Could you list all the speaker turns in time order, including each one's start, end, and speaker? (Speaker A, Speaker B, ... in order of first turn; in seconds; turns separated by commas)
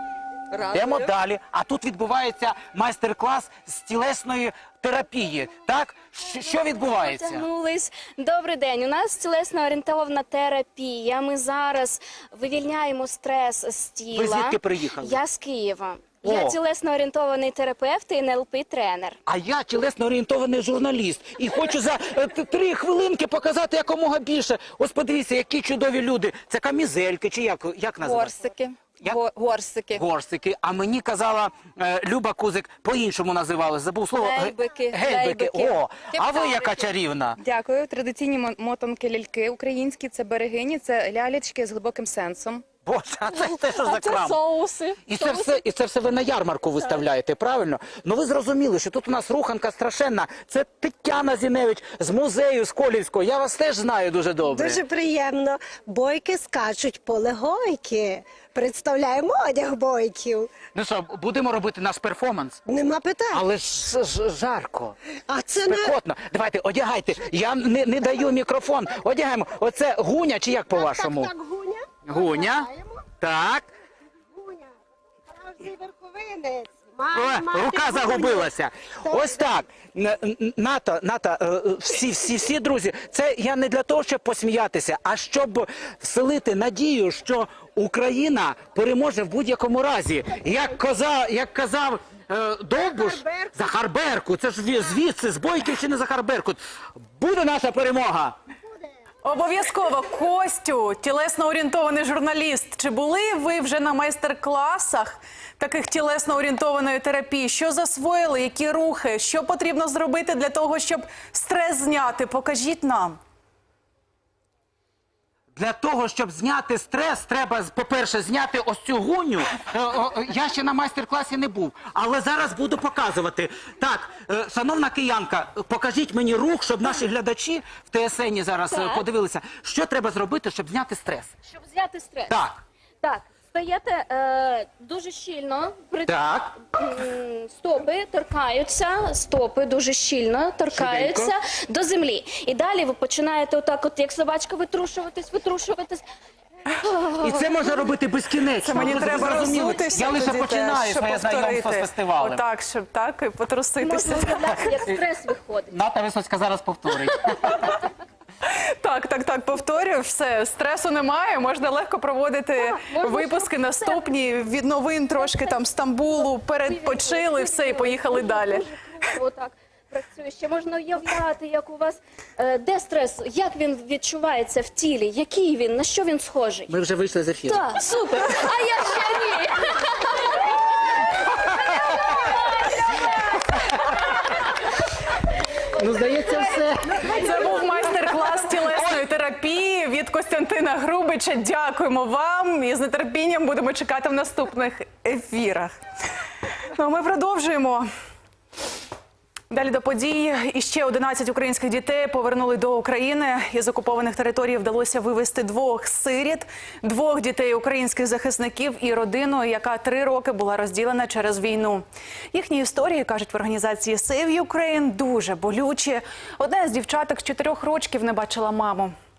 Speaker A: 0.5-1.1, Speaker B: 0.7-7.5, Speaker C: 6.8-19.2, Speaker B: 14.1-15.2, Speaker B: 16.2-16.6, Speaker B: 19.2-28.4, Speaker A: 28.0-30.0, Speaker B: 29.9-37.4, Speaker A: 34.2-42.6, Speaker B: 42.9-44.4, Speaker A: 43.3-45.6, Speaker B: 45.0-54.8, Speaker D: 54.4-60.5, Speaker B: 60.7-62.6, Speaker D: 62.7-63.4, Speaker B: 63.3-64.9, Speaker D: 65.3-65.9, Speaker B: 65.6-71.3, Speaker D: 70.7-73.0, Speaker B: 72.0-72.7, Speaker B: 73.2-73.7, Speaker D: 74.4-74.7, Speaker D: 75.3-78.5, Speaker B: 77.1-96.6, Speaker D: 79.0-79.5, Speaker D: 92.8-93.5, Speaker B: 97.1-98.3, Speaker E: 99.2-113.2, Speaker B: 115.5-131.3, Speaker C: 128.7-129.0, Speaker C: 131.5-132.3, Speaker B: 132.3-132.6, Speaker C: 133.0-146.0, Speaker B: 136.1-136.6, Speaker B: 140.7-141.3, Speaker B: 147.2-152.4, Speaker E: 148.6-154.6, Speaker C: 153.8-155.8, Speaker B: 154.4-155.1, Speaker B: 155.7-157.8, Speaker E: 158.5-168.7, Speaker C: 162.6-164.2, Speaker C: 165.1-165.6, Speaker C: 166.1-176.8, Speaker B: 176.7-177.6, Speaker C: 177.5-179.8, Speaker B: 185.8-187.4, Speaker E: 187.1-195.8, Speaker E: 196.7-197.8, Speaker E: 199.5-218.9